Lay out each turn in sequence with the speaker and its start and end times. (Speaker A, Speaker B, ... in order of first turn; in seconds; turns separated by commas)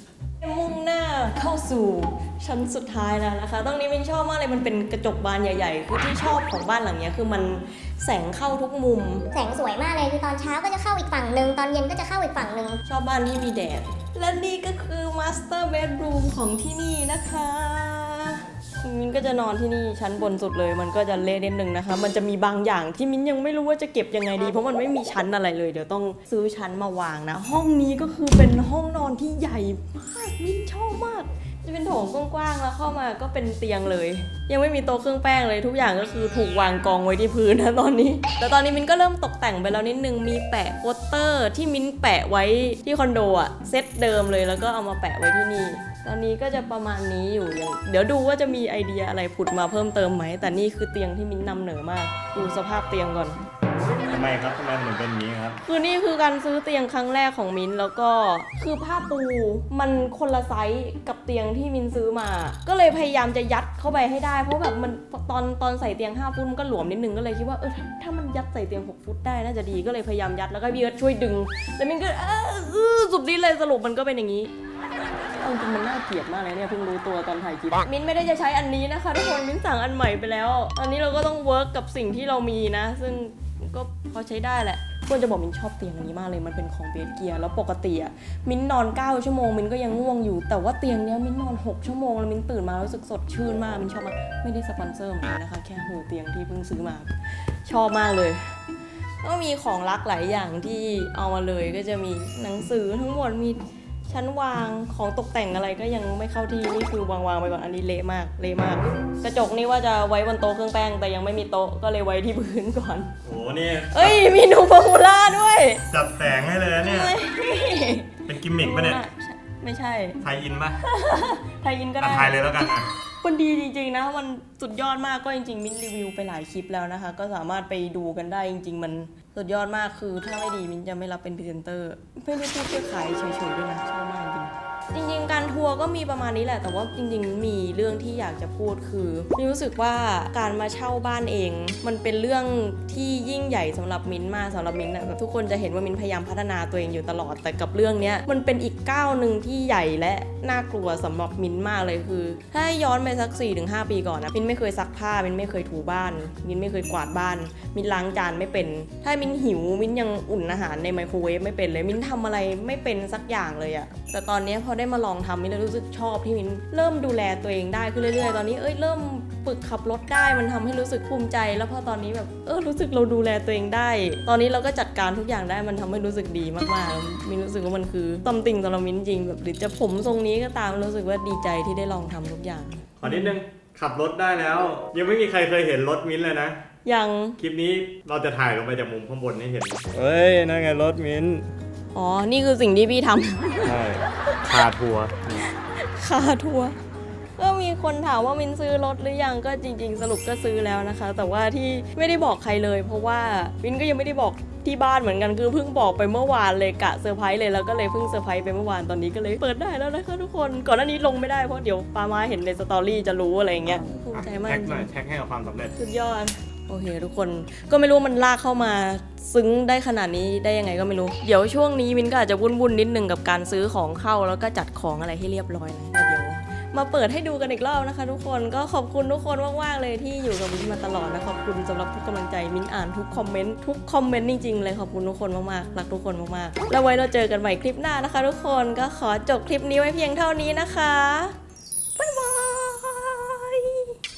Speaker A: 0.4-9.3, Speaker B: 9.3-12.8, Speaker A: 12.8-53.4, Speaker C: 54.1-55.6, Speaker A: 55.6-74.5, Speaker A: 75.4-98.5, Speaker A: 99.2-113.1, Speaker C: 113.2-114.2, Speaker A: 113.9-115.8, Speaker C: 115.9-117.1, Speaker A: 116.8-120.2, Speaker C: 118.2-119.0, Speaker C: 120.2-120.8, Speaker A: 120.8-122.4, Speaker C: 122.0-122.9, Speaker A: 123.2-183.3, Speaker C: 183.0-186.6, Speaker A: 186.8-187.4, Speaker C: 187.4-191.5, Speaker A: 191.9-193.8, Speaker C: 193.6-195.4, Speaker A: 195.5-196.8, Speaker A: 197.4-214.9, Speaker C: 214.1-215.7, Speaker A: 215.8-241.3, Speaker A: 242.0-243.9